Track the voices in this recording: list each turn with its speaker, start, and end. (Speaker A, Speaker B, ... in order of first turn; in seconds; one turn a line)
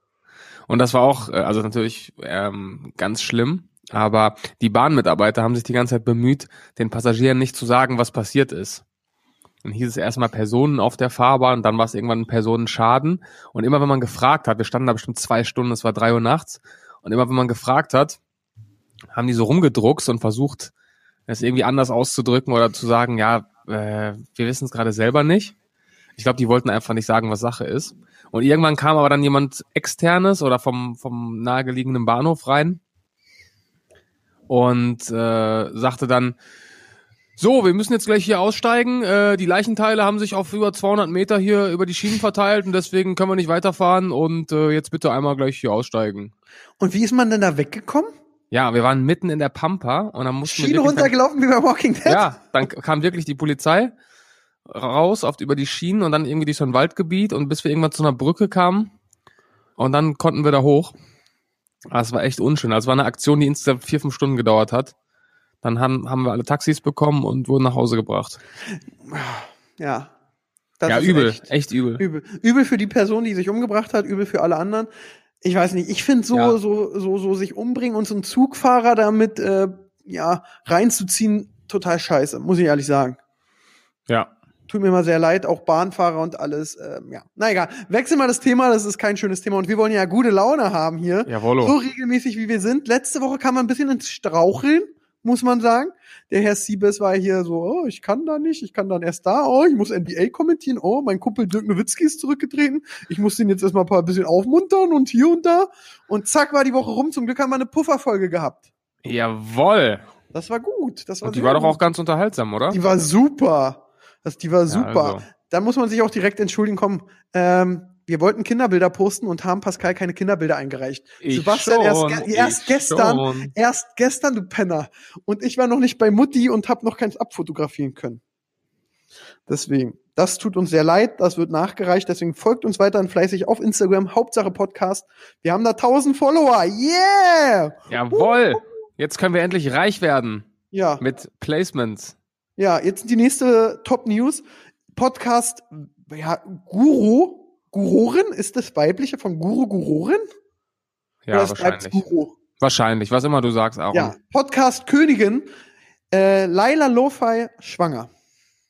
Speaker A: 0.7-8.8
Speaker A: 9.6-18.2
Speaker A: 19.1-20.7
Speaker A: 21.3-25.5
Speaker A: 26.1-32.8
Speaker A: 34.5-36.4
Speaker A: 37.4-46.3
Speaker B: 46.8-48.1
Speaker A: 48.5-51.1
Speaker B: 50.5-52.3
Speaker A: 52.0-53.9
Speaker A: 54.6-58.9
Speaker A: 59.8-60.9
Speaker A: 61.9-64.9
Speaker A: 65.6-68.4
Speaker B: 69.0-70.1
Speaker B: 70.8-71.5
Speaker A: 70.8-72.0
Speaker B: 72.0-74.9
Speaker B: 75.4-83.2
Speaker A: 84.1-84.3
Speaker B: 84.7-108.6
Speaker A: 91.3-91.8
Speaker A: 109.0-110.0
Speaker B: 110.3-111.8
Speaker A: 111.2-112.8
Speaker B: 112.7-128.2
Speaker A: 114.7-115.2
Speaker A: 121.2-123.5
Speaker B: 129.5-138.6
Speaker A: 137.9-142.2
Speaker B: 140.7-141.0
Speaker B: 142.6-150.2
Speaker A: 151.2-152.0
Speaker B: 151.3-152.3
Speaker A: 152.6-154.2
Speaker B: 153.9-155.5
Speaker B: 156.1-158.1